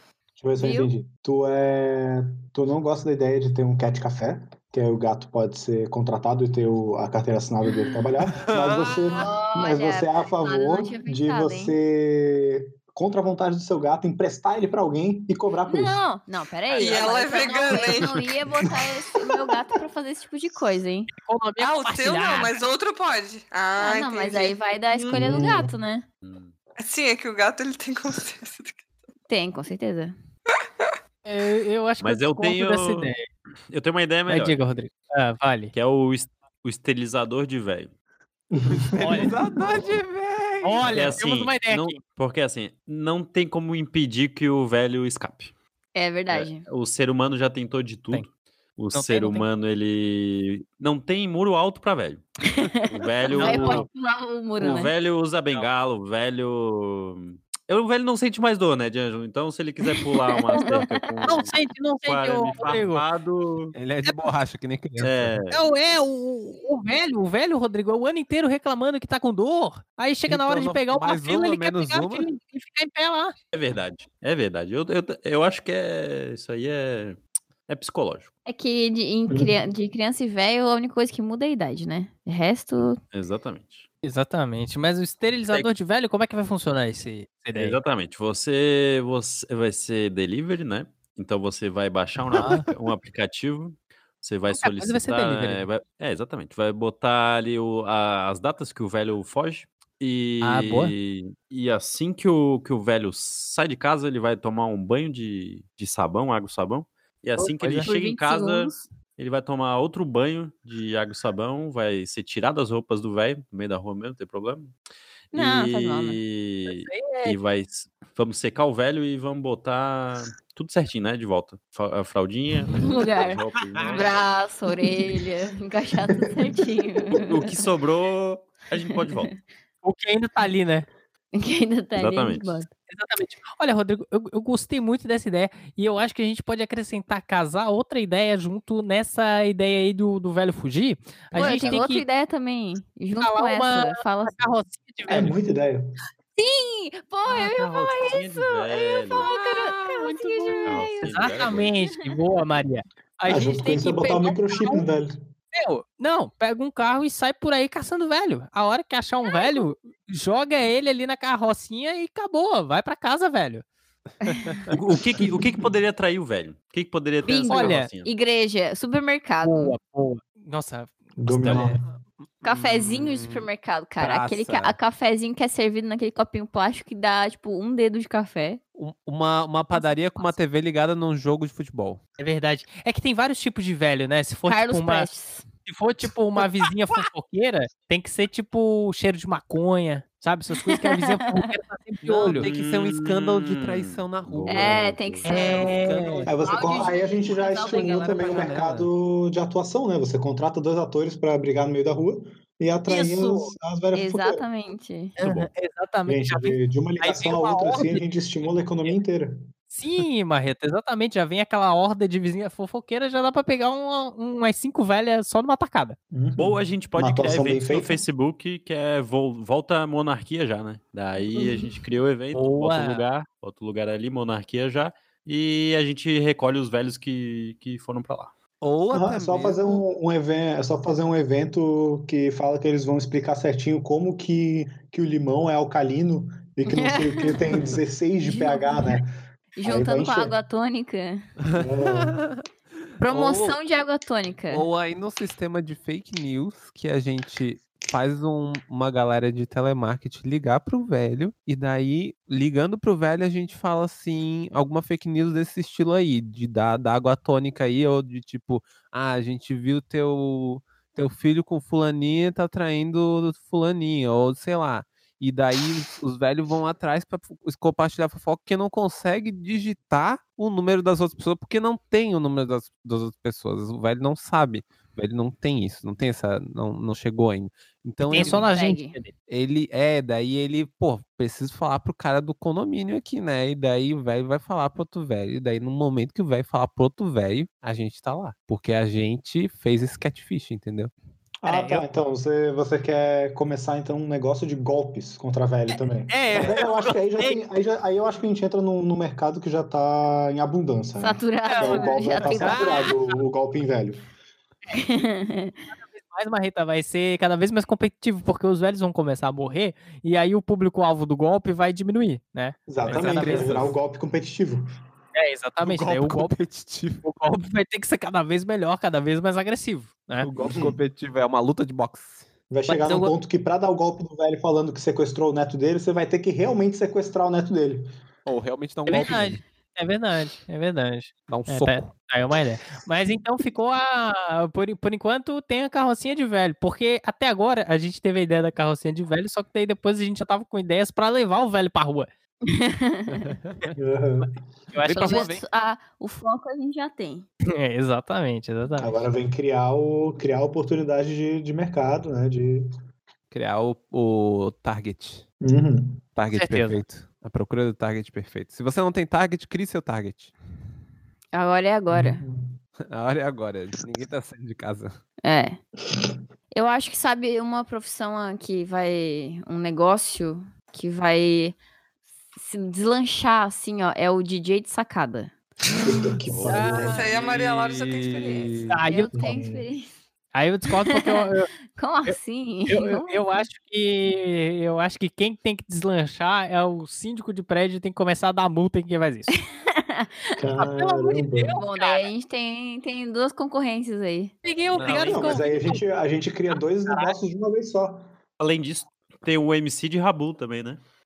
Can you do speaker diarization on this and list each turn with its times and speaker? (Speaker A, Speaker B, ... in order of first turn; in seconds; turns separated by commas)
Speaker A: 0.4-16.0, Speaker B: 0.6-0.9, Speaker C: 8.4-9.2, Speaker B: 9.2-11.8, Speaker B: 15.7-21.1, Speaker D: 16.7-18.4, Speaker E: 21.2-22.6, Speaker D: 21.6-24.6, Speaker B: 23.8-26.1, Speaker A: 25.1-25.7, Speaker F: 26.2-26.5, Speaker D: 26.8-28.8, Speaker B: 29.3-30.1, Speaker E: 31.2-33.3, Speaker F: 32.0-33.1, Speaker F: 33.7-34.6, Speaker E: 34.3-35.7, Speaker F: 35.7-37.9, Speaker A: 38.5-39.4, Speaker C: 38.7-41.2, Speaker E: 39.0-39.3, Speaker E: 40.6-42.0, Speaker F: 40.9-45.5, Speaker B: 46.0-46.6, Speaker F: 46.3-52.2, Speaker E: 48.9-49.5, Speaker B: 52.5-54.9, Speaker F: 52.9-53.9, Speaker E: 53.3-53.9, Speaker F: 54.6-63.7, Speaker B: 60.1-61.4, Speaker E: 60.5-63.0, Speaker C: 63.7-65.4, Speaker F: 65.0-65.6, Speaker E: 65.5-73.3, Speaker C: 70.3-72.3, Speaker F: 73.5-78.3, Speaker B: 78.5-83.0, Speaker A: 79.3-79.5, Speaker F: 83.1-83.9, Speaker E: 84.0-87.8, Speaker F: 87.5-114.7, Speaker E: 92.4-92.7, Speaker E: 94.5-95.7, Speaker E: 100.4-100.9, Speaker E: 107.4-107.9, Speaker B: 107.8-108.9, Speaker B: 115.3-116.2, Speaker F: 115.3-124.1, Speaker E: 116.7-117.4, Speaker B: 122.7-127.5, Speaker F: 127.2-129.3, Speaker B: 128.9-129.4, Speaker E: 129.8-130.9, Speaker B: 131.3-132.7, Speaker F: 132.0-132.6, Speaker E: 132.9-142.1, Speaker B: 141.3-144.5, Speaker F: 141.3-141.8, Speaker E: 143.2-145.4, Speaker A: 145.1-145.8, Speaker B: 146.4-151.1, Speaker F: 147.3-149.3, Speaker C: 149.3-150.6, Speaker E: 150.4-154.8, Speaker F: 150.7-151.7, Speaker B: 151.9-152.2, Speaker A: 153.3-155.2, Speaker B: 154.1-154.7, Speaker E: 155.5-163.6, Speaker B: 159.2-159.7, Speaker B: 164.2-164.7, Speaker F: 164.7-168.1, Speaker B: 167.2-169.8, Speaker E: 167.5-167.9, Speaker E: 169.4-171.8, Speaker A: 171.2-171.8, Speaker C: 171.5-171.8, Speaker C: 172.4-174.8, Speaker B: 172.4-178.6, Speaker C: 178.8-182.0, Speaker B: 179.7-180.3, Speaker E: 182.2-185.1, Speaker B: 184.5-185.5, Speaker E: 185.7-192.5, Speaker B: 190.6-191.5, Speaker C: 192.0-196.6, Speaker F: 192.4-195.3, Speaker B: 194.5-198.6, Speaker E: 195.2-196.3, Speaker A: 196.3-204.4, Speaker E: 198.0-198.7, Speaker C: 198.1-198.9, Speaker E: 202.9-203.5, Speaker B: 203.9-205.2, Speaker E: 205.2-208.0, Speaker F: 205.2-205.5, Speaker A: 206.1-209.5, Speaker E: 209.7-216.0, Speaker A: 216.1-218.0, Speaker F: 216.4-228.3, Speaker E: 222.3-223.0, Speaker C: 228.6-229.8, Speaker A: 228.9-240.4, Speaker B: 236.7-237.5, Speaker B: 238.2-239.0, Speaker B: 239.6-241.2, Speaker C: 241.5-242.4, Speaker A: 241.6-242.2, Speaker B: 243.0-244.7, Speaker C: 243.0-243.6, Speaker C: 244.5-278.5, Speaker E: 278.1-279.1, Speaker B: 278.1-279.0, Speaker C: 279.3-290.9, Speaker A: 291.4-304.1, Speaker E: 291.5-291.9, Speaker E: 296.1-297.4, Speaker B: 301.0-302.9, Speaker E: 301.4-302.9, Speaker B: 304.7-305.6, Speaker E: 305.7-313.7, Speaker A: 312.7-314.6, Speaker C: 312.9-313.8, Speaker E: 315.1-316.4, Speaker C: 315.6-317.0, Speaker E: 317.0-320.3, Speaker C: 320.2-322.3, Speaker A: 320.4-320.8, Speaker A: 322.5-327.9, Speaker E: 322.7-323.1, Speaker C: 328.3-329.4, Speaker E: 328.9-342.1, Speaker C: 331.3-331.9, Speaker B: 342.4-343.3, Speaker A: 343.8-344.4, Speaker E: 344.7-345.3, Speaker C: 344.9-345.4, Speaker B: 344.9-347.3, Speaker E: 347.6-349.0, Speaker A: 348.8-352.7, Speaker C: 353.3-355.2, Speaker A: 355.4-356.0, Speaker C: 356.2-360.3, Speaker E: 356.3-356.8, Speaker B: 361.3-362.2, Speaker A: 361.9-362.6, Speaker C: 362.9-365.0, Speaker B: 365.2-365.6, Speaker B: 366.5-371.6, Speaker B: 372.4-375.3, Speaker A: 375.8-377.0, Speaker F: 376.3-377.4, Speaker E: 376.4-377.0, Speaker D: 376.8-378.7, Speaker C: 377.1-378.8, Speaker E: 378.7-379.1, Speaker B: 378.8-379.9, Speaker A: 379.1-379.7, Speaker E: 380.3-381.5, Speaker B: 380.7-383.2, Speaker E: 382.1-389.4, Speaker B: 389.3-390.4, Speaker A: 390.4-391.6, Speaker E: 390.6-392.1, Speaker B: 391.6-394.3, Speaker E: 394.4-395.8, Speaker C: 394.7-395.2, Speaker F: 394.7-395.6, Speaker A: 395.0-398.1, Speaker E: 396.5-397.2, Speaker F: 398.4-400.8